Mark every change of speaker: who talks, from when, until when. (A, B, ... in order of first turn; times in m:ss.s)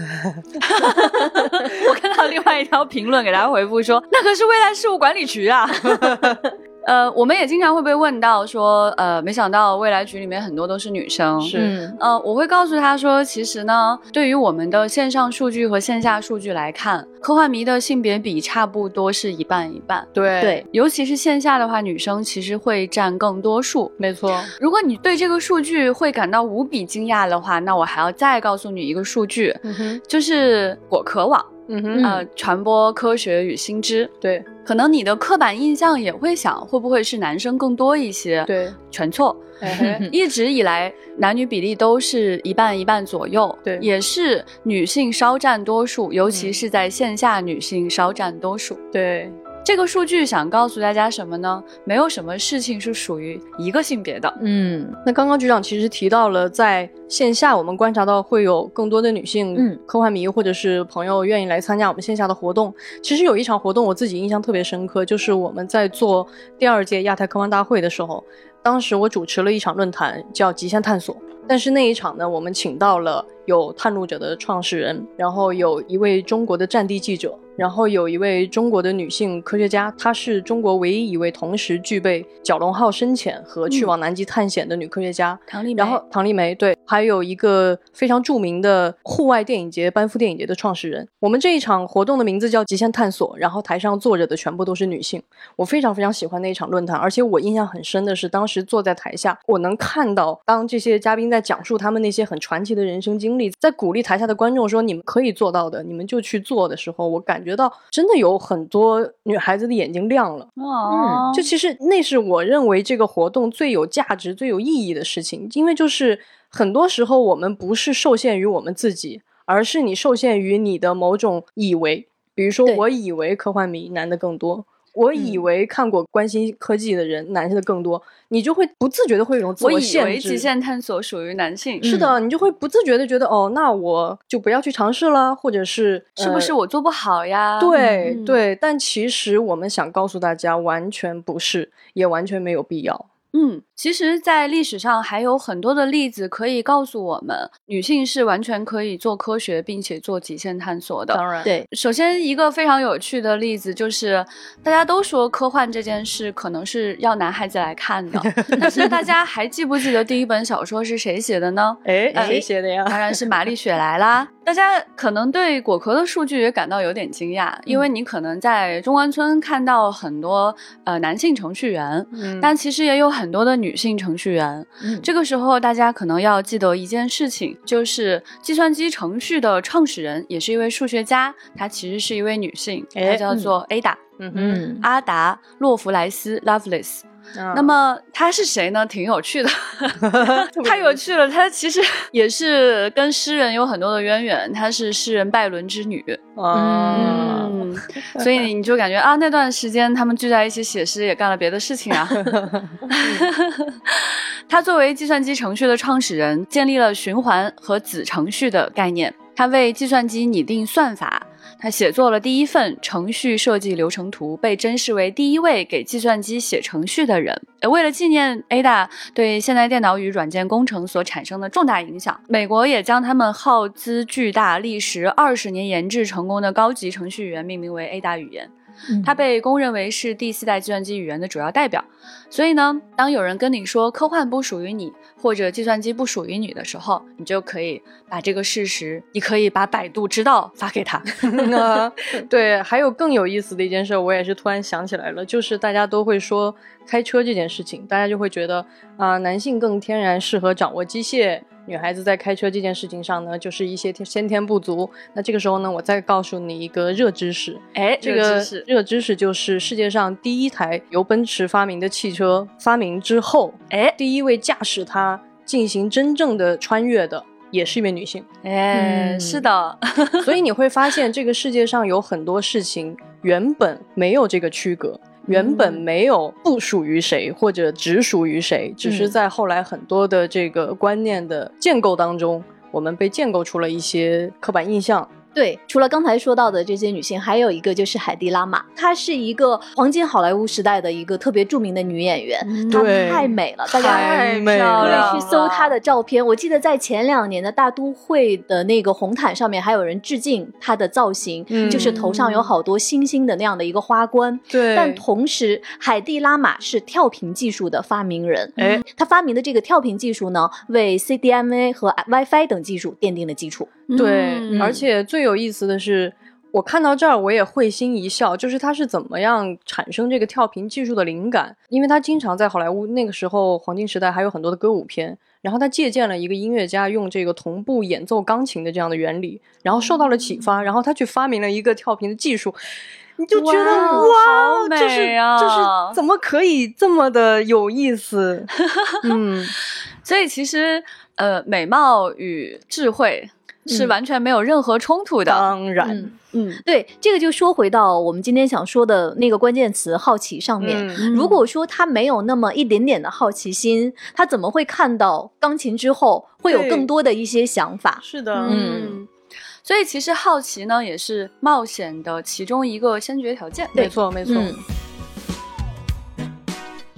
0:00.6-0:20.1 A
0:01.2-0:01.7 B
0:05.9-0:06.4 C
0:11.4-0:11.7 C
0:11.5-0:12.0 B
0:20.1-0:20.6 C
0:20.7-0:23.9 A
0:24.0-0:24.5 C
0:24.6-0:34.1 A
0:29.6-0:30.0 C
0:31.7-0:32.1 C
0:31.9-0:32.2 B
0:34.2-0:34.5 C
0:34.6-0:48.8 A
0:38.5-0:38.8 C
0:39.6-0:40.0 C
0:39.7-0:40.1 B
0:46.3-0:46.5 C
0:48.9-0:49.4 C
0:49.6-0:54.4 A
0:54.4-0:55.0 B
0:55.0-1:50.5 C
0:59.5-0:59.8 B
1:23.7-1:23.9 A
1:25.5-1:26.0 A
1:50.6-1:51.5 A
1:50.9-1:51.2 B
1:51.3-2:10.5 C
2:05.2-2:05.4 B
2:09.6-2:11.9 A
2:11.8-2:12.1 B
2:11.8-2:16.5 C
2:16.2-2:18.4 A
2:17.6-2:23.1 C
2:17.8-2:18.1 B
2:23.3-3:04.2 A
2:31.1-2:31.5 C
2:38.4-2:39.0 C
2:41.8-2:43.2 C
2:42.1-2:42.4 B
2:52.1-2:52.6 C
2:54.8-2:55.1 B
3:02.9-3:03.2 C
3:04.2-3:04.6 C
3:04.3-3:04.8 B
3:04.8-3:16.2 A
3:07.3-3:07.8 C
3:10.0-3:11.1 C
3:16.4-3:18.3 C
3:16.5-3:17.4 B
3:16.9-3:48.5 A
3:22.3-3:23.3 C
3:48.9-3:49.1 B
3:49.0-4:01.7 A
4:01.3-4:28.3 C
4:17.7-4:18.6 A
4:23.7-4:24.0 A
4:28.4-4:30.4 A
4:28.7-4:29.5 B
4:30.2-4:45.1 C
4:35.3-4:35.8 B
4:38.8-4:39.1 B
4:45.3-5:13.8 B
4:52.4-4:55.7 A
4:52.7-4:55.2 C
5:01.5-5:02.1 C
5:01.7-5:02.5 A
5:04.5-5:05.0 C
5:08.6-5:08.8 C
5:13.9-5:14.8 A
5:13.9-5:38.5 C
5:14.5-5:14.8 B
5:33.3-5:36.0 A
5:33.6-5:34.1 B
5:38.6-5:45.5 A
5:39.0-5:39.5 C
5:43.7-5:43.9 B
5:45.2-5:46.1 C
5:45.8-5:46.1 B
5:46.3-5:46.6 A
5:46.6-5:59.0 B
5:50.6-5:51.1 C
5:51.0-5:51.4 A
5:56.5-5:56.9 C
5:58.0-5:58.6 C
5:58.3-5:59.1 A
5:59.6-6:03.8 A
6:03.7-6:04.6 C
6:03.8-6:04.6 B